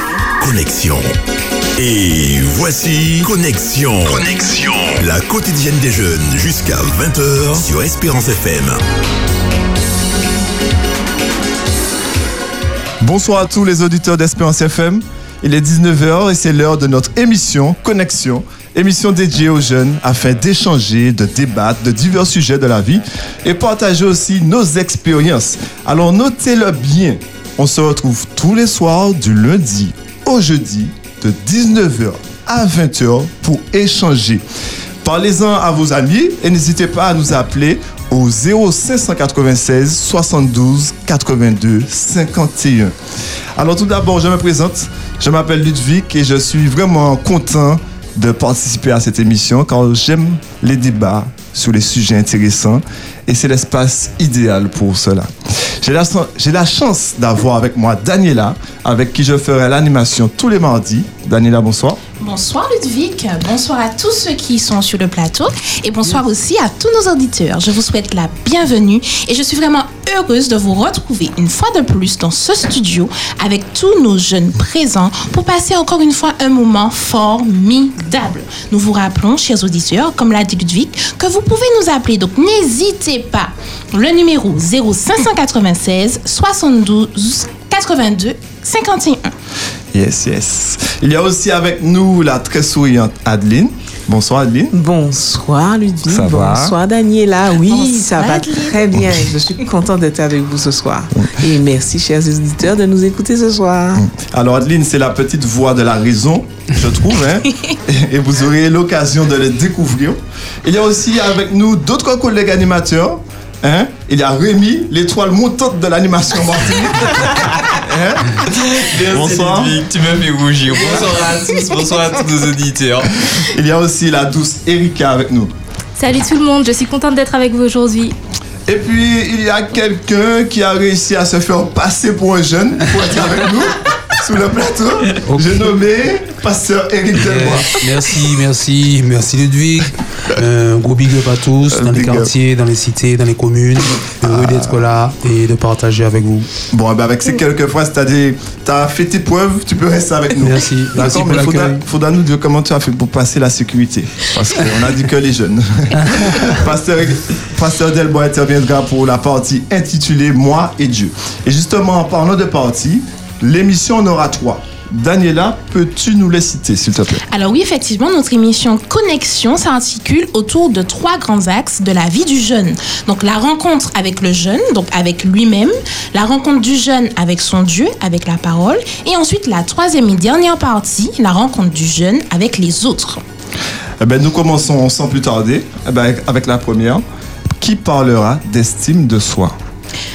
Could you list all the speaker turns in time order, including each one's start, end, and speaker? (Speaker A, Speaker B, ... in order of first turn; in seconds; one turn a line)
Speaker A: 0.4-1.1
Speaker A: 1.8-8.8
Speaker B: 13.0-34.4
Speaker B: 35.0-42.9
Speaker B: 43.5-55.3
Speaker B: 55.8-62.0
Speaker C: 62.2-89.3
Speaker B: 89.9-94.7
Speaker D: 94.7-104.0
Speaker B: 96.1-96.7
Speaker C: 97.7-98.8
Speaker B: 104.0-118.4
Speaker E: 118.5-123.2
Speaker B: 119.0-119.7
Speaker B: 123.3-125.5
Speaker F: 126.0-128.1
Speaker B: 128.7-137.8
Speaker G: 135.3-135.6
Speaker G: 137.2-146.5
Speaker B: 141.7-142.3
Speaker B: 144.2-144.8
Speaker B: 146.7-167.2
Speaker G: 150.4-151.8
Speaker G: 156.0-156.5
Speaker C: 167.3-183.2
Speaker B: 184.0-187.0
Speaker B: 187.6-189.6